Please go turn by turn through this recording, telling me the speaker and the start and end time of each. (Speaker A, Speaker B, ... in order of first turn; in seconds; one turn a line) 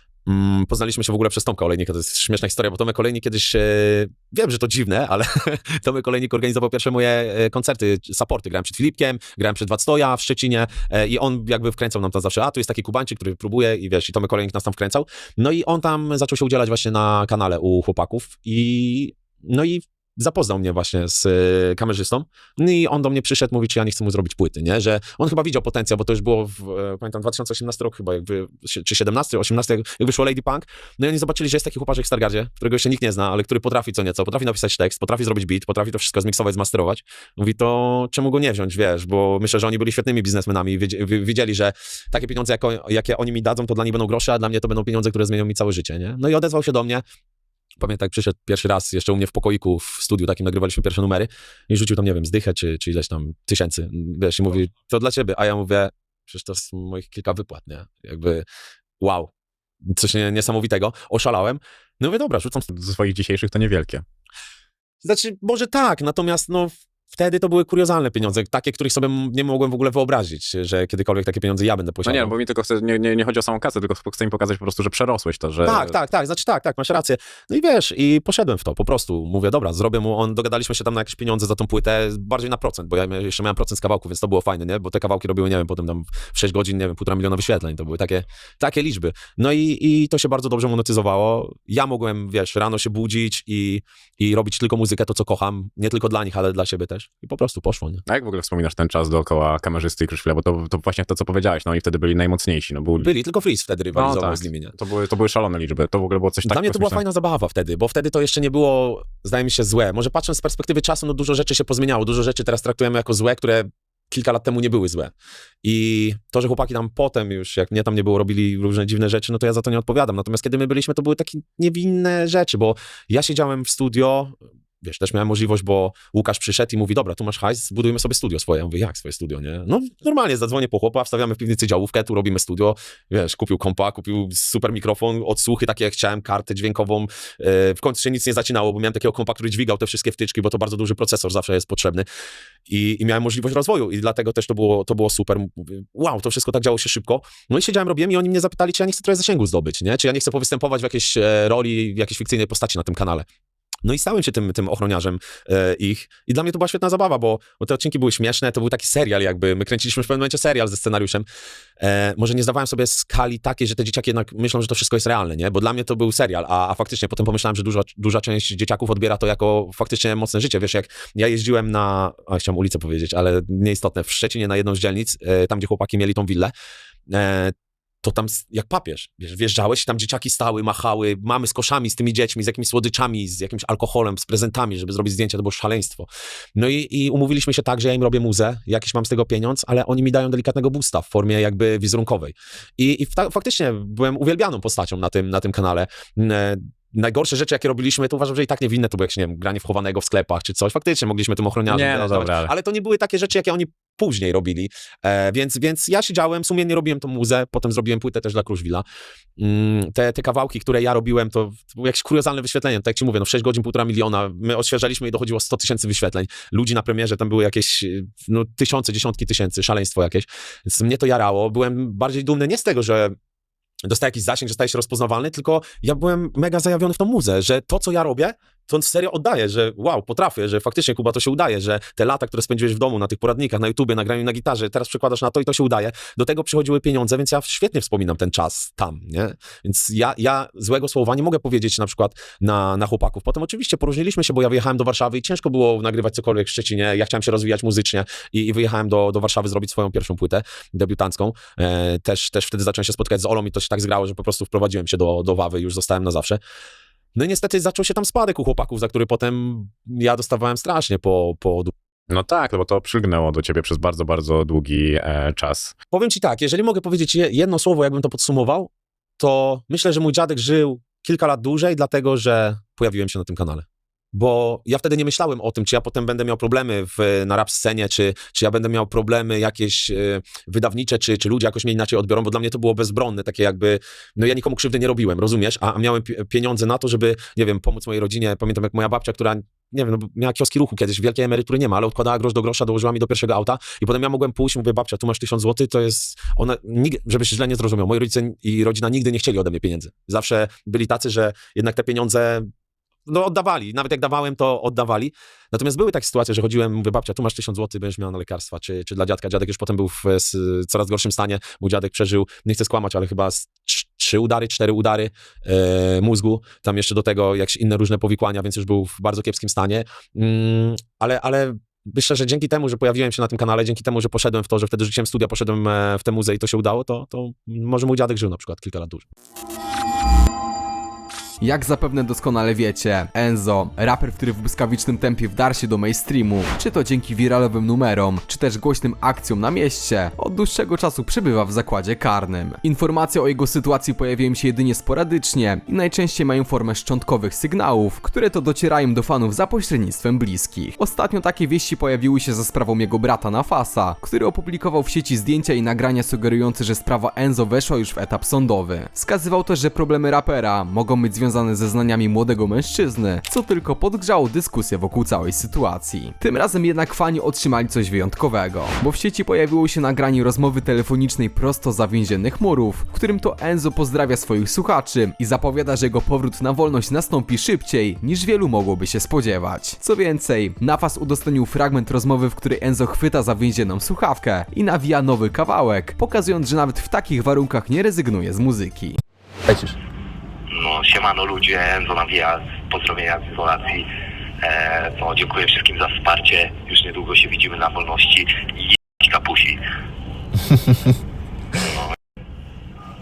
Speaker A: 0.3-47.0
Speaker A: 47.8-58.5
Speaker A: 59.0-59.3
Speaker A: 59.9-62.7
Speaker B: 62.7-64.0
Speaker A: 65.0-72.3
Speaker B: 72.0-76.0
Speaker A: 75.6-98.0
Speaker B: 98.1-103.1
Speaker A: 103.0-104.8
Speaker B: 103.9-107.0
Speaker A: 106.5-115.1
Speaker A: 115.6-142.1
Speaker A: 142.7-153.2
Speaker A: 153.8-161.3
Speaker A: 161.8-176.5
Speaker A: 177.1-208.8
Speaker B: 201.7-202.5
Speaker A: 209.4-223.2
Speaker A: 223.9-256.4
Speaker A: 257.2-261.7
Speaker B: 262.1-265.7
Speaker A: 265.9-302.5
Speaker A: 303.1-329.1
Speaker C: 331.4-389.0
Speaker D: 390.5-393.9
Speaker D: 394.4-399.6
Speaker D: 401.6-401.9